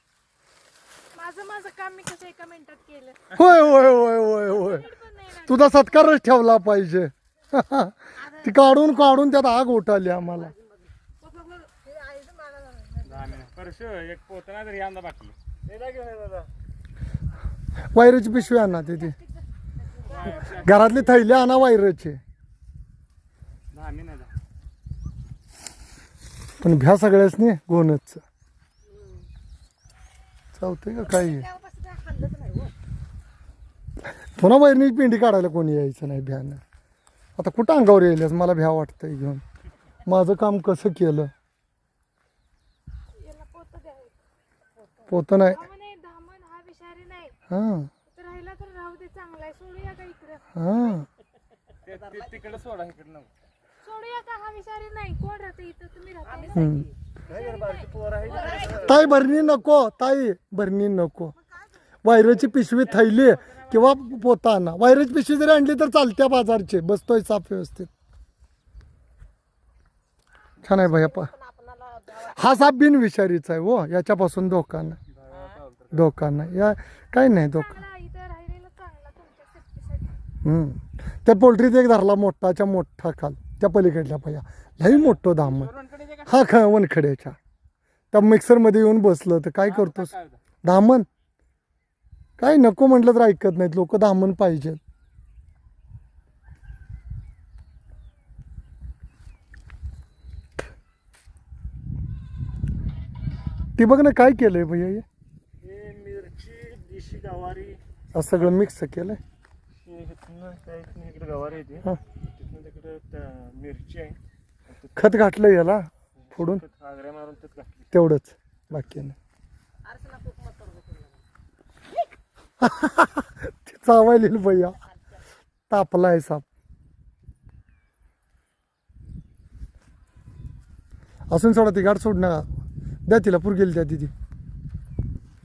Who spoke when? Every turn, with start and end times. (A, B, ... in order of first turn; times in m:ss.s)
0:01.1-0:03.4 A
0:03.3-0:04.9 B
0:04.2-0:06.2 A
0:05.5-0:10.5 B
0:10.2-0:12.3 C
0:13.0-0:15.3 D
0:15.6-0:16.5 E
0:17.8-0:19.2 B
0:20.2-0:20.7 D
0:20.5-0:22.2 B
0:23.7-0:24.3 D
0:26.6-0:28.2 B
0:28.9-0:29.2 C
0:30.6-0:31.5 B
0:31.0-0:32.7 C
0:34.2-0:36.6 B
0:37.4-0:39.4 B
0:40.1-0:41.3 B
0:43.1-0:44.2 A
0:45.1-0:45.6 B
0:45.4-0:47.3 A
0:47.5-0:47.9 B
0:48.1-0:51.0 A
0:50.6-0:51.1 B
0:52.1-0:53.3 D
0:53.8-0:58.4 A
0:56.2-0:56.9 C
0:56.6-0:56.9 B
0:57.3-0:59.3 E
0:58.3-0:58.7 C
0:58.7-1:01.3 B
1:02.0-1:07.9 B
1:10.6-1:11.3 B
1:10.7-1:12.4 C
1:12.2-1:15.0 B
1:15.9-1:17.8 B
1:17.3-1:20.1 A
1:20.4-1:27.4 B
1:25.6-1:26.2 D
1:28.1-1:31.1 B
1:29.6-1:30.4 D
1:32.4-1:34.8 B
1:43.8-1:45.0 B
1:45.6-1:47.8 E
1:48.1-1:49.2 B
1:49.8-1:55.3 E
1:55.0-1:56.6 B
1:56.2-1:57.9 E
1:57.9-1:59.2 B
1:59.8-2:01.2 C
2:02.6-2:04.8 B
2:05.7-2:06.4 B
2:11.3-2:12.5 B
2:13.1-2:14.1 B